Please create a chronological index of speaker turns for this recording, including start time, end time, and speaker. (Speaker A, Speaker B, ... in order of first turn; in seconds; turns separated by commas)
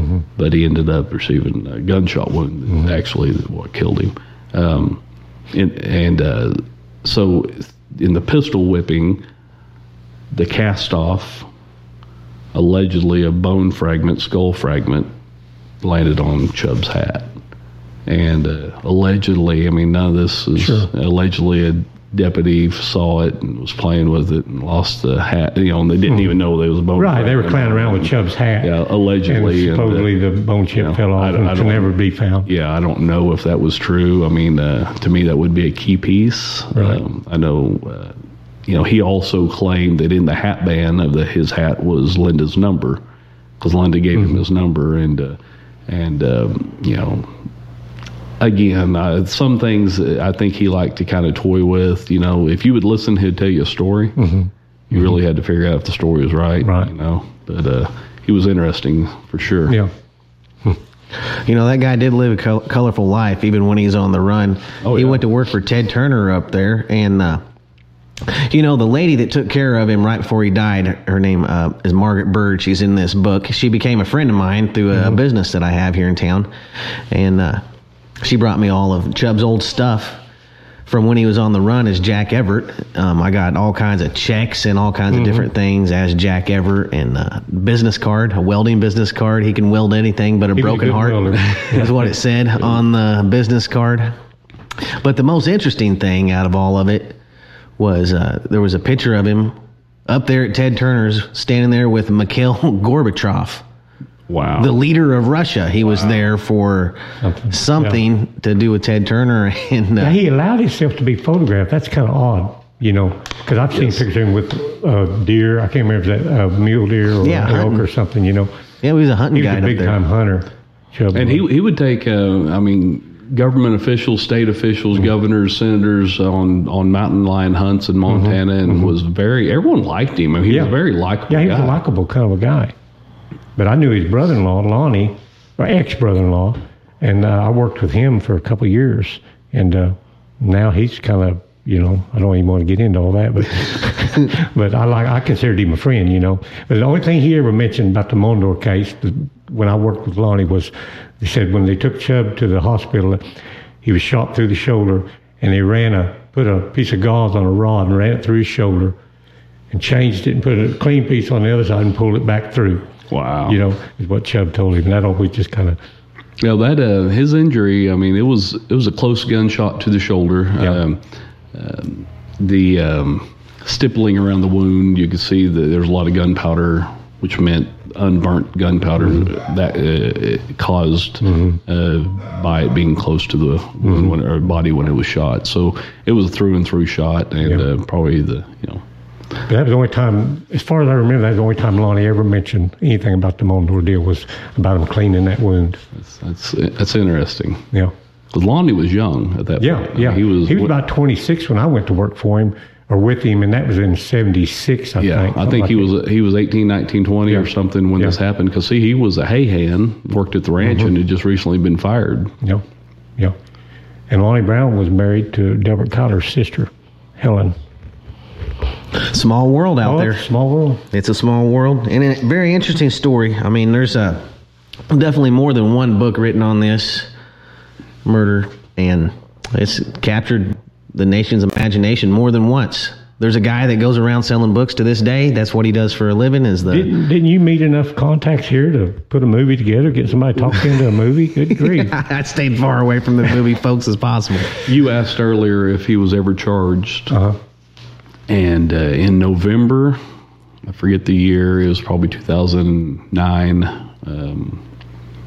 Speaker A: 0.4-5.0, Speaker A: 5.5-9.2, Speaker A: 10.3-11.5, Speaker A: 12.5-15.1, Speaker A: 15.8-17.3, Speaker A: 18.1-30.1, Speaker B: 20.6-20.9, Speaker B: 27.0-28.8, Speaker B: 29.3-32.5, Speaker A: 30.7-31.9, Speaker A: 32.5-38.2, Speaker A: 38.7-43.0, Speaker A: 43.6-47.3, Speaker A: 48.4-54.3, Speaker B: 54.2-55.0, Speaker A: 54.9-59.8, Speaker B: 56.6-56.9, Speaker C: 61.3-67.4, Speaker A: 64.8-65.2, Speaker C: 68.2-76.5, Speaker C: 77.1-77.6, Speaker C: 78.2-80.2, Speaker C: 80.9-94.2, Speaker B: 85.1-85.5, Speaker B: 90.6-91.9, Speaker C: 94.8-97.2, Speaker C: 97.8-99.5, Speaker C: 100.1-103.6, Speaker A: 104.3-104.7, Speaker C: 104.6-110.2, Speaker B: 107.2-108.0, Speaker B: 110.0-118.5, Speaker A: 113.7-114.0, Speaker C: 117.2-117.8, Speaker C: 118.8-120.0, Speaker B: 119.3-121.4, Speaker A: 121.1-131.8, Speaker B: 128.1-128.9, Speaker B: 130.5-130.8, Speaker B: 131.3-132.7, Speaker B: 133.6-153.2, Speaker B: 153.8-159.0, Speaker B: 159.7-162.9, Speaker A: 163.1-163.6, Speaker B: 163.5-165.8, Speaker A: 166.4-171.0, Speaker A: 171.5-188.8, Speaker B: 181.2-181.6, Speaker B: 183.8-184.1, Speaker B: 189.5-195.8, Speaker A: 195.9-197.7, Speaker A: 198.3-200.7, Speaker B: 199.6-205.8, Speaker A: 205.0-212.3, Speaker B: 214.1-217.6, Speaker C: 218.9-220.3, Speaker B: 219.8-220.8, Speaker C: 220.9-224.2, Speaker C: 224.9-227.1, Speaker C: 228.1-236.9, Speaker B: 236.7-242.0, Speaker C: 241.6-244.6, Speaker A: 244.6-247.2, Speaker B: 247.1-247.4, Speaker A: 248.3-250.0, Speaker A: 250.7-254.6